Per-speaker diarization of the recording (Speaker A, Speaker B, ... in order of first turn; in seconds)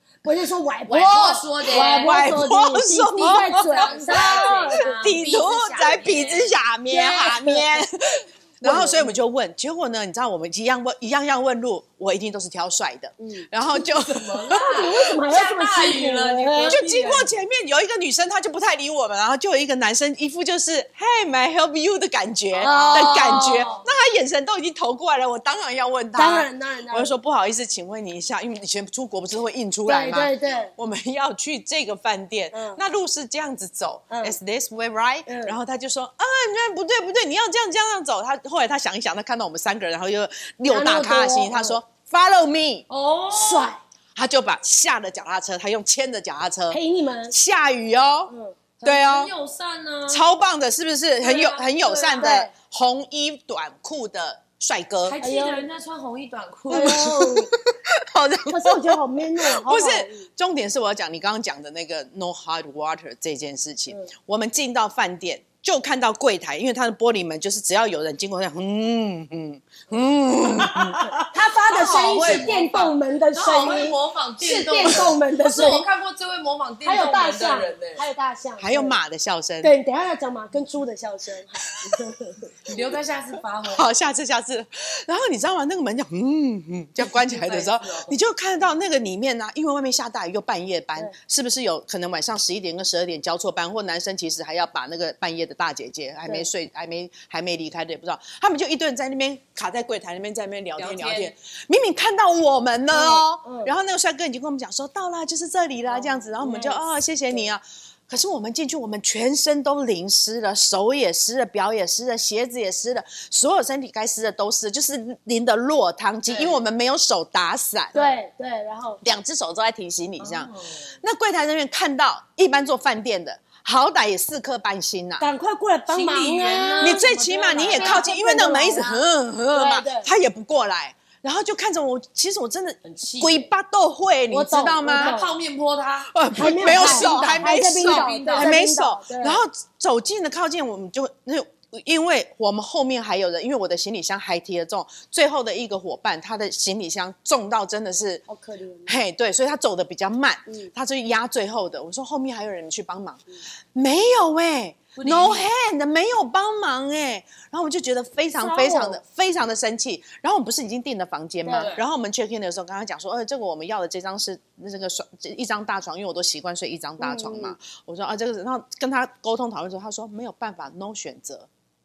Speaker A: 0.2-5.0, 7.0-7.6, 8.6-9.1, 13.2-13.5, 14.5-16.8, 22.6-23.7, 26.1-27.1, 29.9-30.7, 32.5-32.8, 34.1-34.4, 35.2-35.5, 40.7-41.8, 43.3-43.8, 46.7-47.3, 48.3-48.6, 52.2-52.5, 55.2-55.6, 56.7-57.5, 58.5-60.3, 71.3-75.8, 76.8-79.0, 79.6-82.5, 102.9-103.7, 105.9-106.8, 117.9-119.0, 125.2-130.1, 134.3-135.3, 136.3-139.4, 148.3-149.0, 150.5-150.7, 158.3-159.0, 161.4-161.7, 167.0-167.5
Speaker B: 0.9-2.3, 3.2-7.3, 13.7-17.3, 22.5-23.9, 42.9-43.7, 48.8-50.2, 51.2-52.4, 55.0-57.4, 70.7-71.0, 71.7-78.0, 82.7-83.9, 87.0-88.2, 100.8-101.3, 116.3-116.6, 117.9-118.2, 120.2-120.9, 125.9-128.1, 132.8-133.5, 134.9-138.5, 154.9-155.5, 161.5-161.8
Speaker C: 1.8-14.7, 16.7-42.9, 44.1-49.3, 50.1-55.2, 56.7-71.2, 78.6-79.7, 83.7-117.9, 119.0-125.2, 126.8-135.2, 136.1-148.2, 148.8-171.5